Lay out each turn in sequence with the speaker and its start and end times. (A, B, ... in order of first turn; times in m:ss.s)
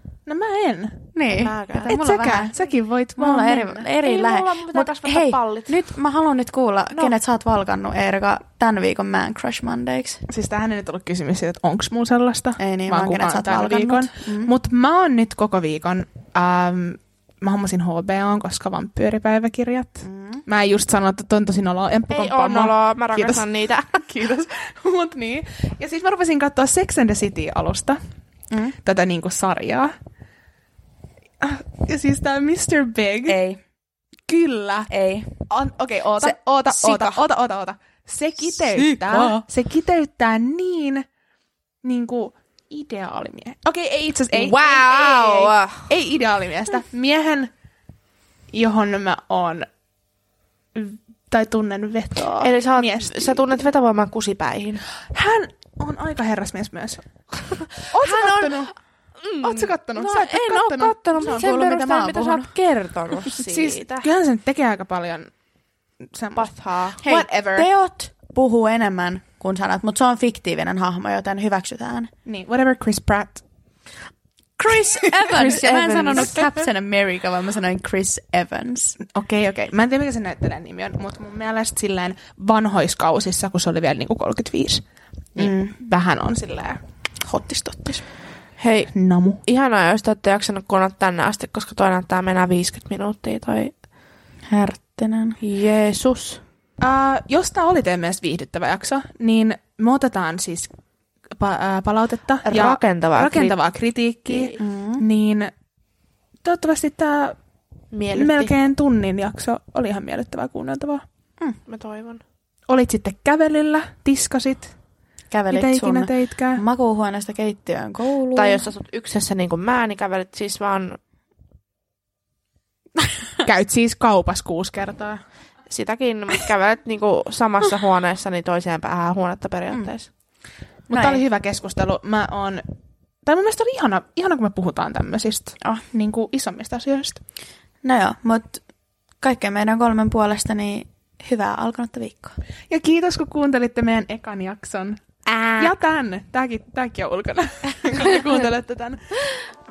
0:00.3-0:01.1 A
0:01.1-0:02.5 B
0:01.4-0:01.9 C
0:01.8-0:03.9 A
0:03.2-0:10.2 B
0:04.0-0:05.8 C
0:10.3-0:28.0 A
0:12.6-0:14.5 B
0:20.0-0:20.4 B
0:22.1-0:24.0 C
0:28.5-0:28.8 B
0:28.8-0:29.9 A
0:31.4-0:33.4 A
0:33.3-0:33.6 B
0:34.3-0:34.9 A
0:34.9-0:35.3 B
0:35.5-0:41.0 A
0:36.2-0:37.2 B
0:38.4-0:39.4 B
0:41.8-0:47.5 A
0:44.3-0:45.9 C
0:48.5-0:49.7 A
0:50.8-0:53.6 A
0:52.4-0:54.9 C
0:55.0-0:57.2 A
0:57.6-0:58.7 C
0:57.8-0:58.8 A
0:59.2-1:04.1 C
0:59.4-1:01.5 A
1:01.2-1:02.5 B
1:03.4-1:05.3 A
1:06.1-1:07.7 A
1:06.4-1:07.3 C
1:07.1-1:12.1 B
1:12.3-1:13.4 A
1:14.6-1:19.0 B
1:15.0-1:15.4 A
1:15.3-1:16.3 C
1:16.1-1:16.5 A
1:19.1-1:26.8 A
1:25.4-1:25.8 B
1:27.2-1:28.1 B
1:28.6-1:33.8 C
1:28.9-1:29.4 A
1:34.5-1:35.4 B
1:35.4-1:36.4 C
1:36.8-1:40.7 A
1:41.3-1:45.5 A
1:42.4-1:43.6 C
1:44.3-1:44.6 C
1:44.6-1:45.0 B
1:46.4-1:47.4 A
1:47.9-1:48.5 C
1:48.1-1:51.0 A
1:51.7-1:52.2 C
1:52.7-1:54.8 A
1:55.3-1:58.7 B
1:55.5-1:56.6 A
1:58.4-2:01.0 C
2:03.4-2:05.3 A
2:05.7-2:10.1 C
2:09.7-2:10.1 B
2:10.9-2:11.2 B
2:10.9-2:12.6 A
2:13.2-2:17.2 A
2:17.8-2:18.6 B
2:19.2-2:22.4 B
2:22.7-2:29.4 A
2:25.3-2:25.7 C